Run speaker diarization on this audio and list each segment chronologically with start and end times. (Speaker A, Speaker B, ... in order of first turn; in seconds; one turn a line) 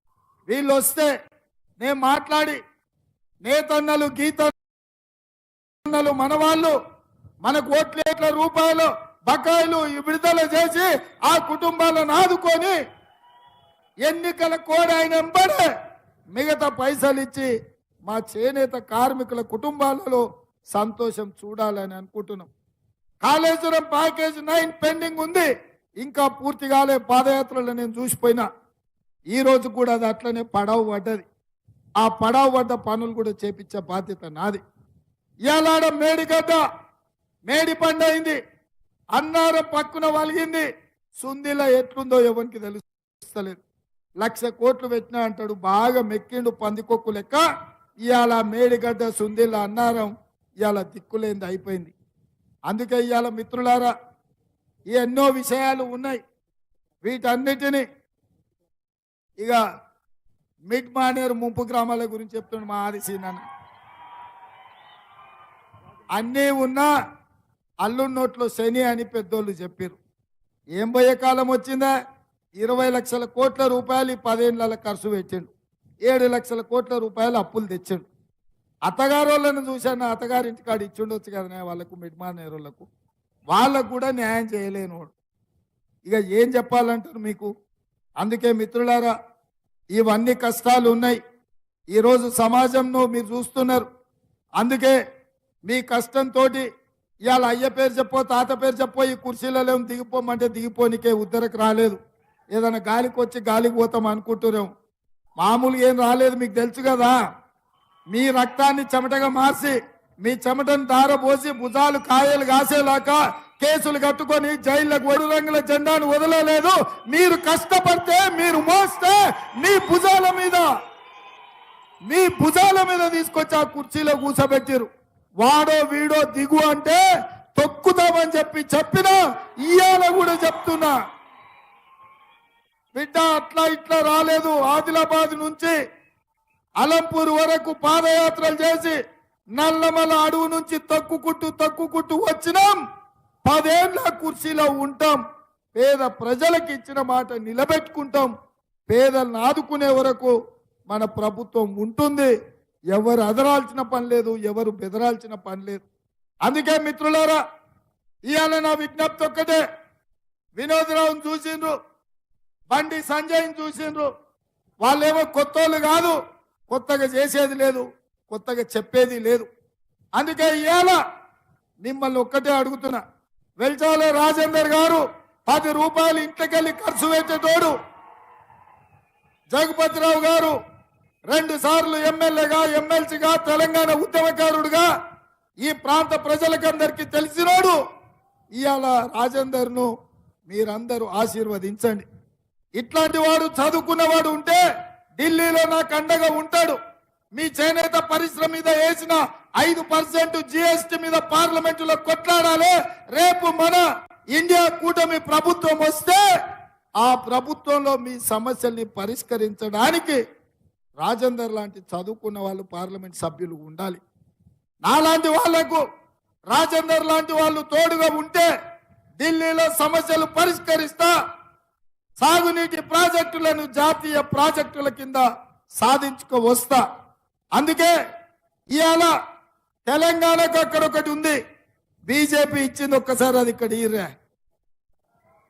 Speaker A: 0.5-1.1
Speaker A: 1.8-2.6
Speaker A: 3.4-4.5
Speaker A: 5.8-6.8
Speaker A: 7.4-12.8
Speaker A: 14.0-15.7
Speaker A: 16.3-17.5
Speaker A: 18.1-22.5
Speaker A: 23.2-28.4
Speaker A: 29.3-31.2
Speaker A: 32.0-34.6
Speaker A: 35.5-36.6
Speaker A: 37.5-38.4
Speaker A: 39.1-43.6
Speaker A: 44.2-47.4
Speaker A: 48.0-51.9
Speaker A: 52.7-53.9
Speaker A: 54.9-56.2
Speaker A: 57.0-57.8
Speaker A: 60.7-63.4
Speaker A: 66.2-66.9
Speaker A: 67.8-70.0
Speaker A: 70.8-71.9
Speaker A: 72.6-75.5
Speaker A: 76.0-78.0
Speaker A: 78.8-82.9
Speaker A: 83.5-85.1
Speaker A: 86.0-87.5
Speaker A: 88.2-89.1
Speaker A: 89.9-91.2
Speaker A: 91.9-93.9
Speaker A: 94.6-95.0
Speaker A: 95.7-96.7
Speaker A: 97.3-102.0
Speaker A: 102.5-104.7
Speaker A: 105.4-107.2
Speaker A: 108.1-120.7
Speaker A: 122.1-124.9
Speaker A: 125.4-127.0
Speaker A: 127.6-130.9
Speaker A: 132.9-135.7
Speaker A: 136.8-139.0
Speaker A: 139.6-142.8
Speaker A: 143.4-145.2
Speaker A: 145.7-148.3
Speaker A: 148.9-150.3
Speaker A: 150.9-152.3
Speaker A: 152.9-155.8
Speaker A: 156.4-157.4
Speaker A: 158.3-159.6
Speaker A: 160.6-161.8
Speaker A: 162.7-164.1
Speaker A: 164.8-166.2
Speaker A: 166.7-169.5
Speaker A: 170.2-171.0
Speaker A: 171.8-173.0
Speaker A: 173.6-177.7
Speaker A: 179.5-180.6
Speaker A: 181.3-184.9
Speaker A: 185.6-187.8
Speaker A: 188.6-189.9
Speaker A: 190.5-192.1
Speaker A: 192.8-194.6
Speaker A: 195.2-196.8
Speaker A: 197.3-203.8
Speaker A: 204.3-206.2
Speaker A: 207.0-210.2
Speaker A: 211.0-214.0
Speaker A: 214.8-215.8
Speaker A: 216.5-218.5
Speaker A: 219.2-221.1
Speaker A: 222.2-225.2
Speaker A: 225.8-226.8
Speaker A: 227.6-227.9
Speaker A: 228.7-229.1
Speaker A: 229.8-231.4
Speaker A: 232.1-234.1